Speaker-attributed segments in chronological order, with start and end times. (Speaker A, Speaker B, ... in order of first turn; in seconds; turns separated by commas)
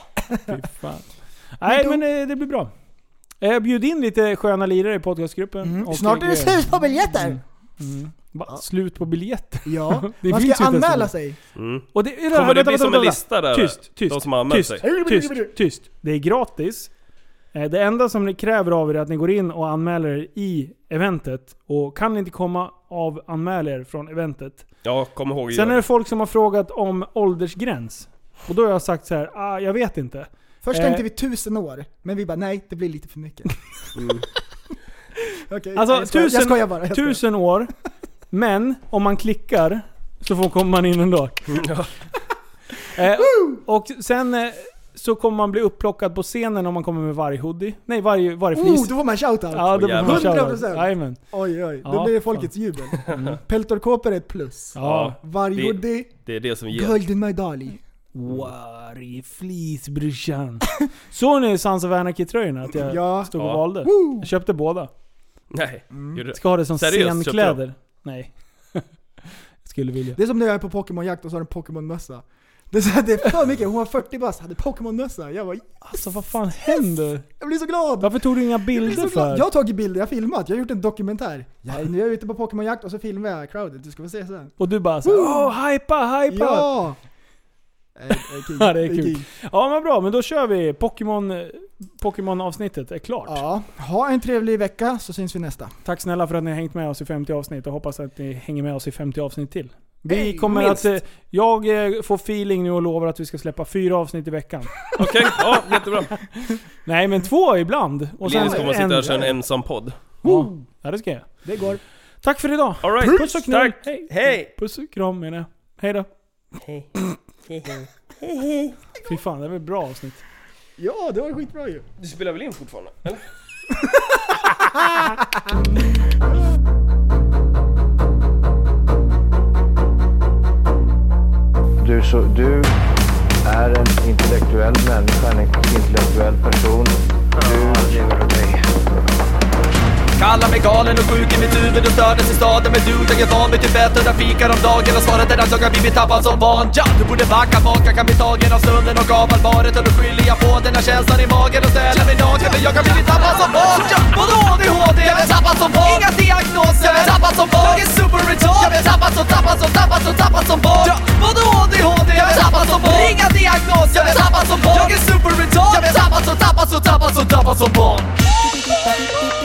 Speaker A: 0.5-2.7, Speaker B: 1.7-2.0, Speaker A: 3.4-11.1, Speaker B: 5.6-7.4, Speaker B: 9.7-11.4, Speaker C: 11.6-14.9, Speaker A: 11.9-16.9, Speaker B: 14.8-15.5, Speaker A: 17.5-24.7, Speaker C: 24.8-25.8, Speaker A: 25.5-31.1, Speaker B: 30.6-33.6, Speaker C: 34.0-34.3, Speaker B: 35.5-37.2, Speaker A: 35.8-37.7, Speaker A: 38.3-41.7, Speaker C: 41.5-41.9, Speaker A: 42.9-49.0, Speaker B: 43.2-43.6, Speaker B: 48.5-56.1, Speaker A: 49.5-51.2, Speaker C: 49.7-50.4, Speaker A: 51.8-53.4, Speaker C: 53.1-53.4, Speaker A: 54.8-55.2, Speaker C: 54.8-57.0, Speaker B: 56.7-57.8, Speaker A: 58.1-64.9, Speaker B: 62.8-64.3, Speaker C: 65.5-67.6, Speaker B: 65.9-66.2, Speaker A: 66.3-68.8, Speaker A: 69.6-70.2, Speaker B: 70.2-76.2, Speaker A: 75.8-77.3, Speaker B: 77.4-85.5, Speaker A: 78.0-79.5, Speaker A: 84.6-86.7, Speaker B: 86.3-87.0, Speaker B: 88.0-89.3, Speaker A: 88.4-93.4, Speaker B: 93.3-95.7, Speaker A: 95.8-104.9, Speaker B: 100.1-100.8, Speaker C: 105.0-106.1, Speaker A: 106.5-109.3, Speaker C: 108.2-110.2, Speaker B: 108.3-109.3, Speaker A: 110.2-111.4, Speaker B: 111.4-111.8, Speaker A: 112.2-116.1, Speaker C: 112.8-114.5, Speaker C: 117.5-117.8, Speaker A: 119.0-120.2, Speaker B: 120.8-121.9, Speaker C: 122.0-123.2, Speaker B: 123.9-125.5, Speaker D: 131.8-132.7, Speaker D: 133.4-138.7, Speaker E: 137.5-137.8, Speaker E: 140.2-168.5